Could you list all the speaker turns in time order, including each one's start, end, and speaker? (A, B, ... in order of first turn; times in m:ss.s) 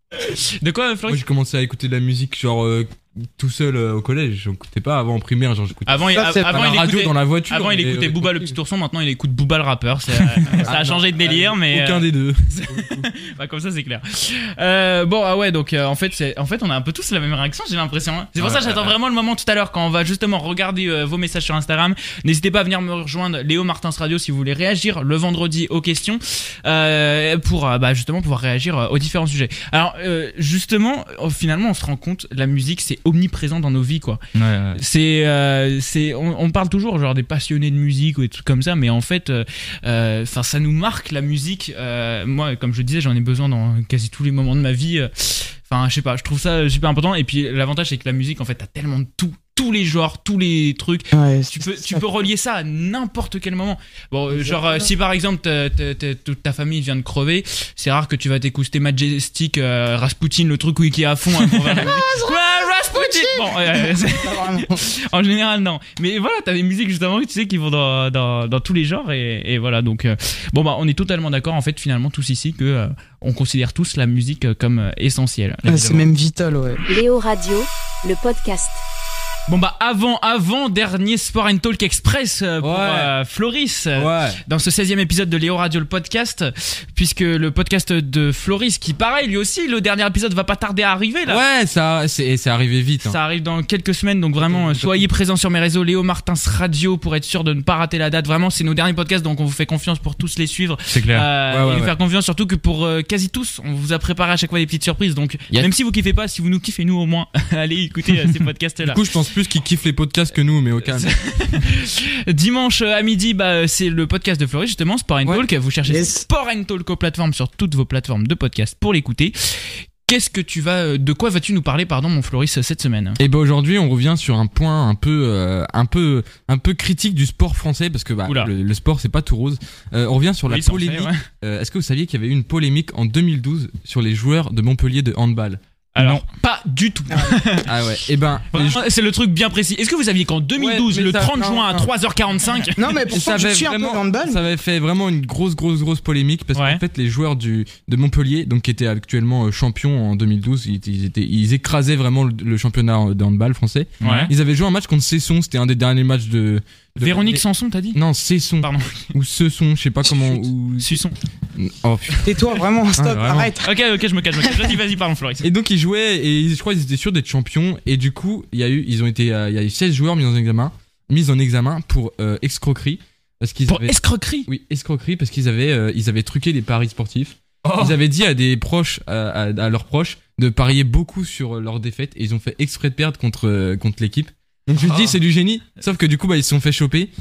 0:00.1-0:01.2 A
0:01.1-0:08.6 B
0:05.9-0:34.2 A
0:06.2-0:06.6 C
0:10.6-0:13.1 B
0:18.4-0:18.7 B
0:34.3-0:34.8 D
0:34.8-1:15.6 A
0:51.1-0:52.1 C
0:54.3-0:54.9 C
1:01.7-1:04.9 C
1:15.6-1:16.1 D
1:15.7-1:16.8 C
1:16.9-1:18.8 E
1:19.5-1:31.4 A
1:22.6-1:23.1 B
1:24.0-1:24.4 B
1:31.3-1:33.2 B
1:33.0-1:49.0 A
1:34.4-1:35.1 B
1:40.9-1:41.3 D
1:41.5-1:41.9 B
1:48.8-1:51.1 B
1:50.9-2:03.2 A
1:55.9-1:56.3 C
2:03.2-2:15.6 B
2:08.3-2:08.5 A
2:10.5-2:11.2 A
2:16.0-2:17.7 A
2:16.0-2:16.2 D
2:17.1-2:17.4 C
2:17.7-2:18.8 B
2:18.5-2:23.0 A
2:20.6-2:21.9 B
2:22.8-2:24.4 C
2:23.1-2:41.0 B
2:26.6-2:26.8 A
2:34.0-2:34.3 A
2:34.0-2:34.3 D
2:37.0-2:38.0 A
2:38.6-2:39.1 A
2:40.0-2:41.2 A
2:41.6-2:42.3 B
2:42.2-2:43.7 C
2:43.0-2:43.5 B
2:43.6-2:45.5 A
2:44.4-2:44.7 C
2:45.4-3:07.1 B
2:53.7-2:54.5 A
2:57.6-2:58.0 D
3:04.8-3:05.1 D